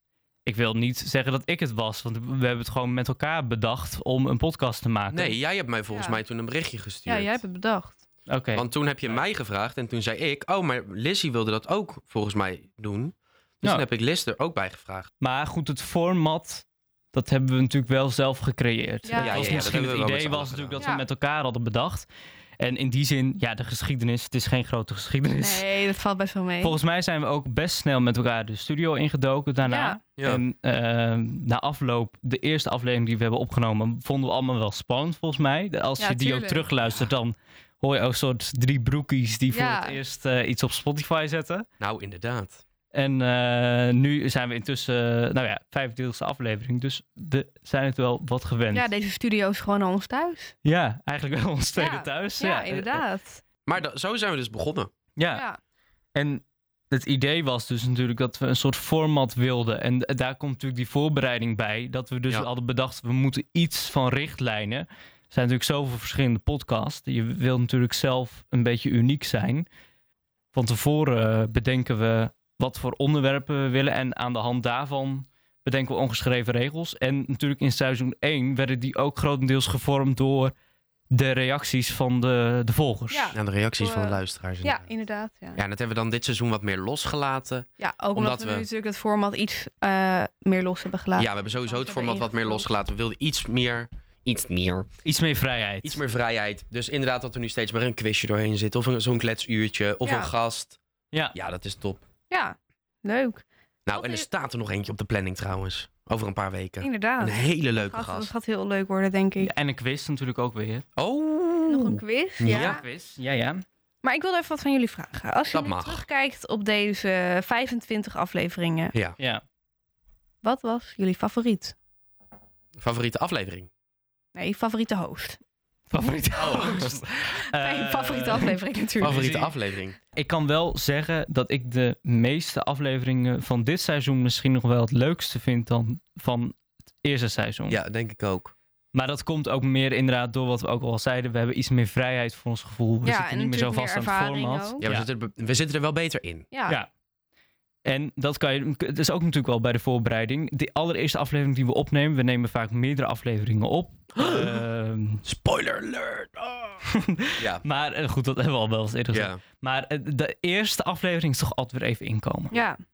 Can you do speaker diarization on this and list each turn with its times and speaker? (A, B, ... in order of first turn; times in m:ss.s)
0:00.4-0:05.4 A
0:05.1-0:07.4 B
0:05.9-0:06.2 C
0:07.1-0:08.0 C
0:08.3-0:09.2 A
0:08.5-0:15.1 B
0:15.2-0:22.1 A
0:19.1-0:19.8 C
0:19.2-0:20.8 B
0:22.6-0:25.7 A
0:25.4-0:26.8 C
0:26.6-0:41.7 A
0:29.6-0:30.0 C
0:30.2-0:30.4 B
0:36.0-0:36.7 C
0:39.5-0:40.0 C
0:41.8-0:42.6 B
0:42.9-0:48.9 A
0:48.7-0:50.5 C
0:50.6-0:53.0 A
0:51.8-0:53.4 C
0:53.7-0:54.9 B
0:55.2-0:55.4 A
0:55.3-0:55.6 C
0:56.2-1:09.7 A
1:10.5-1:20.5 A
1:21.1-1:23.3 A
1:23.1-1:25.6 C
1:23.3-1:24.9 B
1:25.6-1:28.7 B
1:27.8-1:32.7 C
1:31.2-1:34.9 B
1:35.0-1:36.0 A
1:35.8-1:40.8 B
1:40.0-1:40.3 C
1:41.3-1:42.0 B
1:42.3-1:44.3 C
1:43.9-1:48.3 B
1:46.8-1:49.5 C
1:49.4-1:50.8 A
1:51.0-1:52.8 B
1:51.7-1:52.8 C
1:52.5-1:53.6 A
1:54.0-1:59.0 C
1:55.5-1:56.0 B
2:00.4-2:01.8 C
2:02.8-2:03.7 B
2:04.4-2:05.4 C
2:05.9-2:09.5 A
2:06.4-2:07.0 B
2:07.5-2:09.2 C
2:09.0-2:10.0 B
2:10.1-2:17.8 A
2:17.7-2:18.5 B
2:18.9-2:25.1 A
2:23.0-2:24.9 C
2:24.8-2:26.5 B
2:26.5-2:26.8 C
2:27.8-2:35.2 A
2:34.2-2:34.6 B
2:35.2-2:36.8 B
2:36.8-2:42.5 A
2:37.4-2:37.6 B
2:39.1-2:39.4 B
2:42.5-2:42.8 C